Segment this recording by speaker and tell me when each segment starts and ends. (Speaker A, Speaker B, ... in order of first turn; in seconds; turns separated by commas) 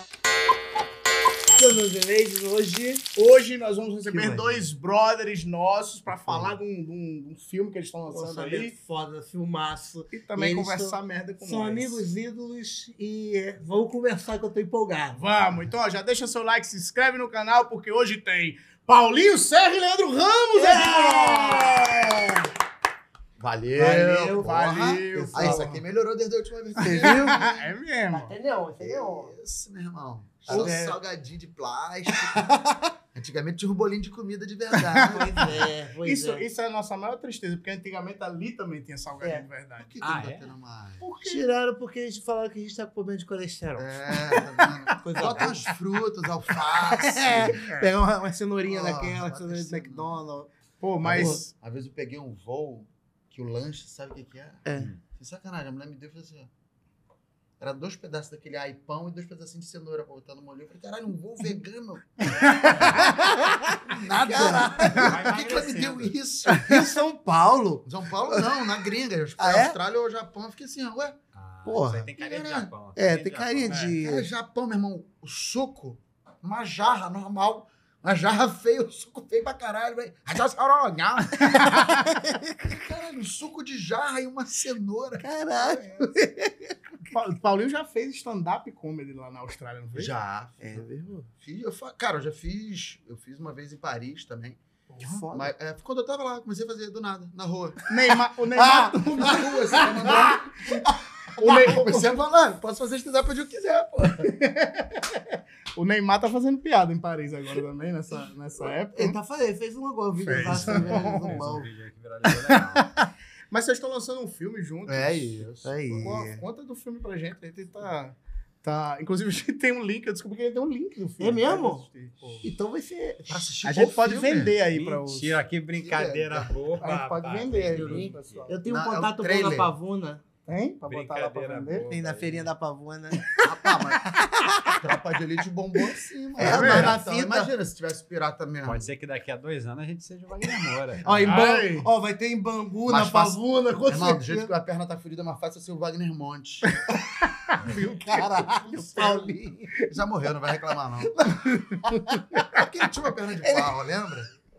Speaker A: 1.5-3.0, Speaker B: 3.1-8.7, Speaker A: 4.1-4.7, Speaker A: 6.3-6.5, Speaker A: 8.1-15.3, Speaker B: 10.1-12.0, Speaker B: 15.2-22.3, Speaker A: 20.5-21.9, Speaker C: 23.4-27.7, Speaker A: 23.8-24.6, Speaker B: 24.4-25.8, Speaker A: 25.1-25.7, Speaker A: 26.8-27.4, Speaker B: 26.9-28.4, Speaker A: 28.1-29.4, Speaker C: 28.8-32.6, Speaker B: 30.5-30.8, Speaker A: 30.5-30.9, Speaker C: 33.1-35.6, Speaker B: 34.9-40.0, Speaker A: 35.1-36.5, Speaker C: 39.8-41.0, Speaker D: 40.0-40.5, Speaker A: 41.0-45.7, Speaker B: 41.1-41.4, Speaker C: 43.8-47.7, Speaker A: 46.8-50.5, Speaker B: 47.6-47.8, Speaker C: 48.7-50.2, Speaker B: 50.8-51.4, Speaker C: 51.0-56.5, Speaker A: 51.1-51.4, Speaker A: 54.6-54.9, Speaker C: 57.6-63.1, Speaker B: 62.5-62.9, Speaker A: 62.9-65.1, Speaker C: 63.8-67.0, Speaker D: 64.9-66.1, Speaker A: 66.5-68.6, Speaker C: 67.8-71.2, Speaker A: 69.4-69.8, Speaker D: 71.3-74.0, Speaker A: 71.6-72.1, Speaker C: 72.2-72.7, Speaker A: 73.0-74.3, Speaker C: 74.0-81.9, Speaker A: 81.5-82.7, Speaker C: 82.6-86.1, Speaker A: 85.2-86.8, Speaker B: 87.1-90.1, Speaker C: 90.0-94.6, Speaker A: 90.6-91.3, Speaker B: 94.9-95.2, Speaker A: 95.0-95.5, Speaker C: 95.3-104.3, Speaker B: 97.9-100.3, Speaker B: 101.4-102.1, Speaker B: 104.2-105.2, Speaker B: 105.8-109.2, Speaker A: 108.9-111.7, Speaker B: 110.2-111.4, Speaker D: 110.5-112.9, Speaker B: 112.3-115.3, Speaker C: 114.9-116.2, Speaker A: 115.6-116.4, Speaker B: 116.0-122.5, Speaker A: 121.2-121.8, Speaker A: 122.4-123.5, Speaker C: 123.3-124.6, Speaker B: 123.6-125.4, Speaker D: 124.7-128.4, Speaker C: 125.8-126.5, Speaker B: 126.8-128.6, Speaker A: 127.7-130.2, Speaker C: 128.7-129.7, Speaker B: 130.5-131.9, Speaker D: 130.8-132.5, Speaker A: 131.8-133.4, Speaker C: 133.4-134.1, Speaker A: 134.0-134.8, Speaker C: 134.7-138.9, Speaker A: 136.4-137.5, Speaker B: 136.4-137.0, Speaker D: 138.6-141.4, Speaker A: 141.0-144.5, Speaker B: 141.2-141.9, Speaker C: 142.8-146.7, Speaker B: 147.4-149.3, Speaker A: 147.6-149.8, Speaker C: 149.8-151.8, Speaker A: 151.5-152.0, Speaker C: 152.5-154.3, Speaker A: 153.4-153.7